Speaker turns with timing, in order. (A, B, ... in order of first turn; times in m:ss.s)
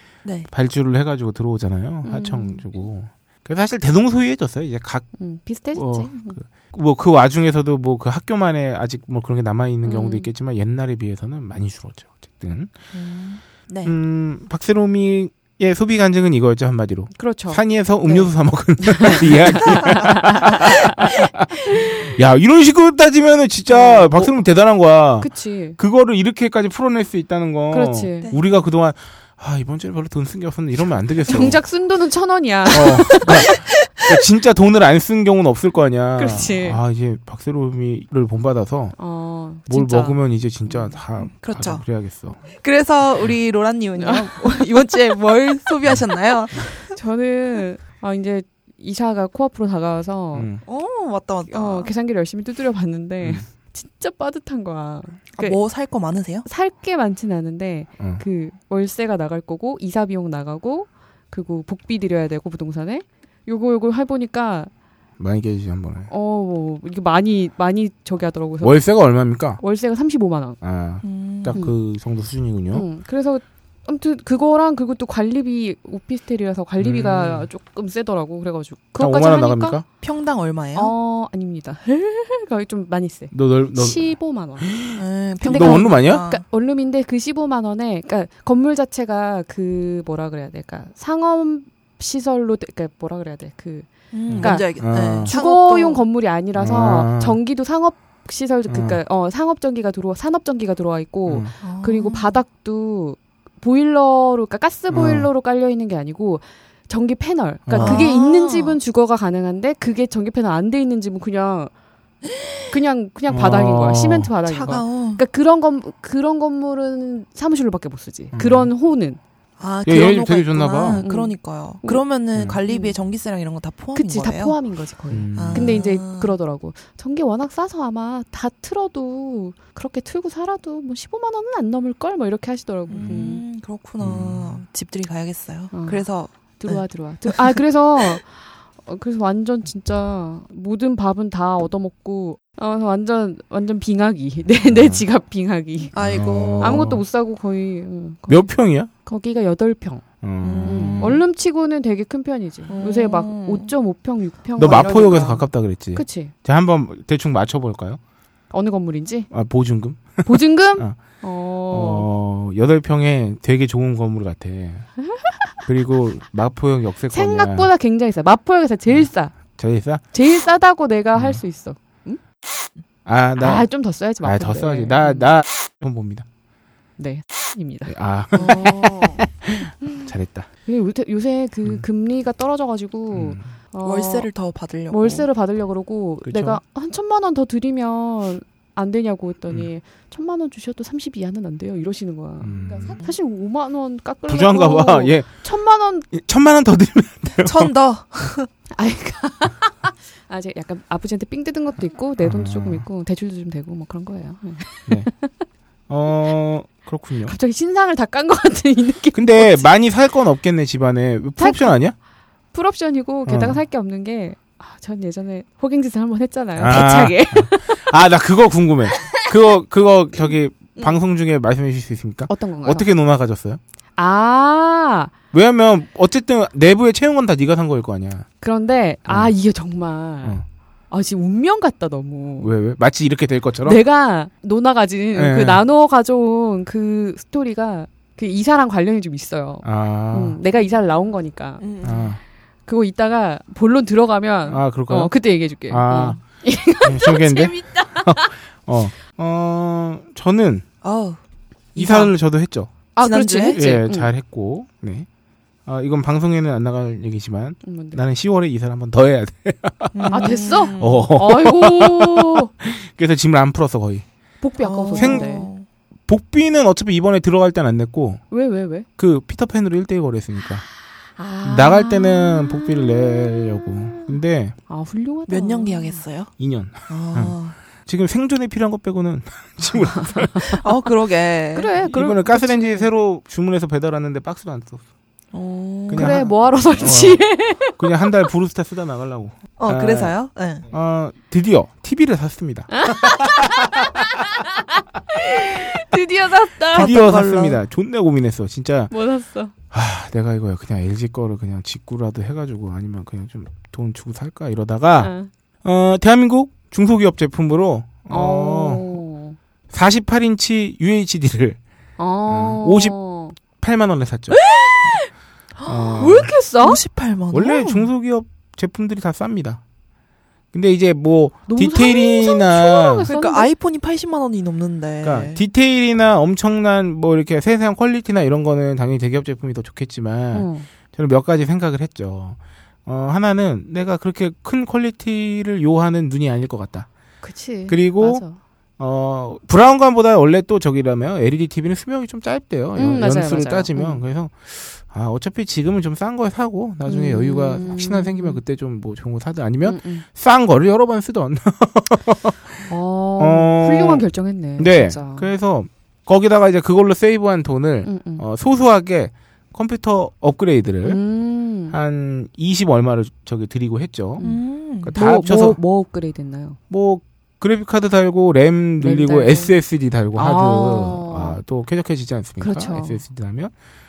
0:00.2-0:00.5 A
0:00.5-0:05.1 B
0:02.0-0:02.6 C
0:05.2-0:06.4 C
0:05.7-0:12.7 B
0:09.8-0:10.3 C
0:12.9-0:13.9 A
0:13.8-0:21.5 B
0:17.1-0:21.2 C
0:21.7-0:22.1 C
0:22.1-0:31.6 B
0:23.7-0:24.4 C
0:25.2-0:25.8 C
0:27.7-0:28.3 C
0:31.3-0:33.4 C
0:32.7-0:39.0 B
0:33.1-0:34.2 A
0:36.2-0:36.8 C
0:39.0-0:40.9 C
0:39.7-0:42.4 B
0:41.2-0:41.8 A
0:42.5-0:47.0 A
0:44.0-0:44.7 C
0:46.9-0:50.5 C
0:50.3-0:50.6 B
0:50.6-0:51.9 A
0:51.5-0:55.6 C
0:55.3-0:56.4 A
0:56.4-1:04.7 C
0:58.0-0:58.2 B
1:05.2-1:06.1 B
1:06.1-1:08.8 C
1:08.6-1:09.6 B
1:09.6-1:10.6 C
1:10.6-1:12.8 B
1:11.0-1:11.6 A
1:12.7-1:19.8 C
1:16.8-1:17.5 B
1:19.0-1:19.8 B
1:20.0-1:20.9 A
1:20.7-1:24.7 C
1:23.3-1:24.1 B
1:24.6-1:24.9 B
1:24.9-1:26.4 A
1:25.4-1:51.7 C
1:25.5-1:26.2 B
1:34.1-1:36.0 A
1:34.3-1:35.3 B
1:36.6-1:37.4 B
1:38.7-1:39.0 B
1:41.2-1:41.5 B
1:41.6-1:42.4 A
1:44.9-1:45.3 B
1:47.6-1:48.0 B
1:47.8-1:48.8 A
1:52.2-1:52.7 A
1:52.7-1:59.2 C
1:53.3-1:54.3 B
1:54.4-1:55.2 A
1:58.3-1:58.7 B
1:59.6-2:04.6 A
1:59.8-2:01.0 B
2:01.0-2:02.0 C
2:02.7-2:02.9 C
2:03.9-2:13.4 C
2:05.1-2:05.8 B
2:05.3-2:06.3 A
2:12.9-2:17.6 A
2:13.0-2:13.3 B
2:14.0-2:14.6 B
2:15.7-2:16.0 C
2:16.6-2:25.9 C
2:24.6-2:25.0 B
2:25.9-2:26.9 A
2:25.9-2:27.0 B
2:26.6-2:28.4 C
2:28.3-2:28.9 B
2:29.0-2:30.0 C
2:30.2-2:31.2 B
2:30.4-2:31.2 A
2:30.6-2:36.3 C
2:32.7-2:33.7 A
2:34.6-2:38.0 B
2:34.6-2:35.4 A
2:38.5-2:39.3 C
2:39.3-2:41.0 B
2:40.2-2:42.1 C
2:41.7-2:44.9 B
2:45.1-2:45.5 C
2:45.6-2:47.7 B
2:47.1-2:49.4 C
2:48.9-2:50.0 B
2:50.1-2:52.2 C
2:51.1-2:51.4 B
2:53.0-2:53.7 B
2:53.4-2:55.3 C
2:54.2-2:56.2 B
2:57.0-2:59.0 C
2:57.9-3:00.5 B
2:58.4-2:59.2 A
3:00.7-3:04.3 C
3:03.1-3:03.5 B
3:03.8-3:05.3 A
3:04.9-3:16.1 C
3:06.2-3:06.6 B
3:12.4-3:13.0 B
3:14.3-3:15.3 B
3:16.1-3:17.7 B
3:17.4-3:18.5 A
3:18.8-3:25.3 C
3:22.2-3:22.8 B
3:25.9-3:27.3 B
3:27.2-3:29.7 C
3:29.1-3:31.9 B
3:31.4-3:31.8 C
3:32.5-3:38.0 C
3:33.2-3:33.6 B
3:36.6-3:43.6 B
3:42.3-3:42.9 C
3:44.0-3:45.1 C
3:45.3-3:48.3 B
3:48.4-3:50.4 C
3:49.1-3:49.3 B
3:50.9-3:52.5 C
3:52.4-3:53.8 B
3:53.6-4:01.6 C
3:55.1-3:55.6 B
3:59.6-4:00.4 B
4:01.6-4:02.1 A
4:01.8-4:02.2 B
4:02.7-4:08.3 C
4:04.4-4:05.1 B
4:05.6-4:06.2 B
4:06.8-4:10.6 B
4:10.8-4:11.2 A
4:11.7-4:12.1 A
4:11.8-4:12.7 B
4:12.9-4:14.1 C
4:13.0-4:13.6 A
4:13.5-4:15.1 B
4:15.6-4:24.0 B
4:17.6-4:18.0 C
4:19.9-4:21.1 A
4:20.1-4:22.5 C
4:24.4-4:25.5 C
4:24.6-4:25.6 A
4:25.0-4:25.3 B
4:26.1-4:28.2 B
4:28.3-4:28.9 C
4:29.0-4:30.6 B
4:31.2-4:34.1 C
4:31.4-4:34.6 B
4:34.7-4:36.0 C
4:35.3-4:36.3 A
4:36.4-4:40.6 B
4:36.9-4:37.6 A
4:40.0-4:40.6 C
4:40.6-4:41.7 A
4:41.5-4:42.9 C
4:41.8-4:44.8 B
4:45.3-4:46.2 A
4:45.9-4:47.2 B
4:45.9-4:47.8 C
4:47.8-4:53.7 B
4:49.6-4:50.7 A
4:52.7-4:56.9 C
4:56.7-4:57.6 A
4:56.7-4:58.9 B
4:58.9-4:59.5 C
4:59.7-5:05.1 B
5:05.0-5:05.3 C
5:05.6-5:09.0 B
5:08.1-5:09.4 C
5:09.7-5:11.6 B
5:12.0-5:13.4 C
5:12.3-5:13.0 B
5:13.6-5:15.0 B
5:14.3-5:15.1 C
5:15.6-5:17.9 A
5:15.6-5:16.3 B
5:16.0-5:16.8 C
5:17.3-5:19.6 B
5:20.5-5:23.1 B
5:21.5-5:23.5 C
5:23.1-5:25.4 A
5:25.0-5:36.9 B
5:30.3-5:30.7 C
5:37.2-5:38.4 C
5:37.7-5:38.2 B
5:38.8-5:54.0 B
5:42.7-5:44.0 C
5:46.8-5:48.4 C
5:49.6-5:50.0 C
5:52.7-5:55.3 C
5:54.6-6:01.0 B
5:57.8-5:58.2 C
6:00.8-6:01.7 C
6:01.7-6:04.2 B
6:04.2-6:04.4 C
6:04.2-6:05.0 A
6:04.8-6:05.6 B
6:04.9-6:06.6 C
6:06.7-6:13.5 B
6:08.8-6:09.5 C
6:10.2-6:11.4 C
6:12.4-6:13.0 C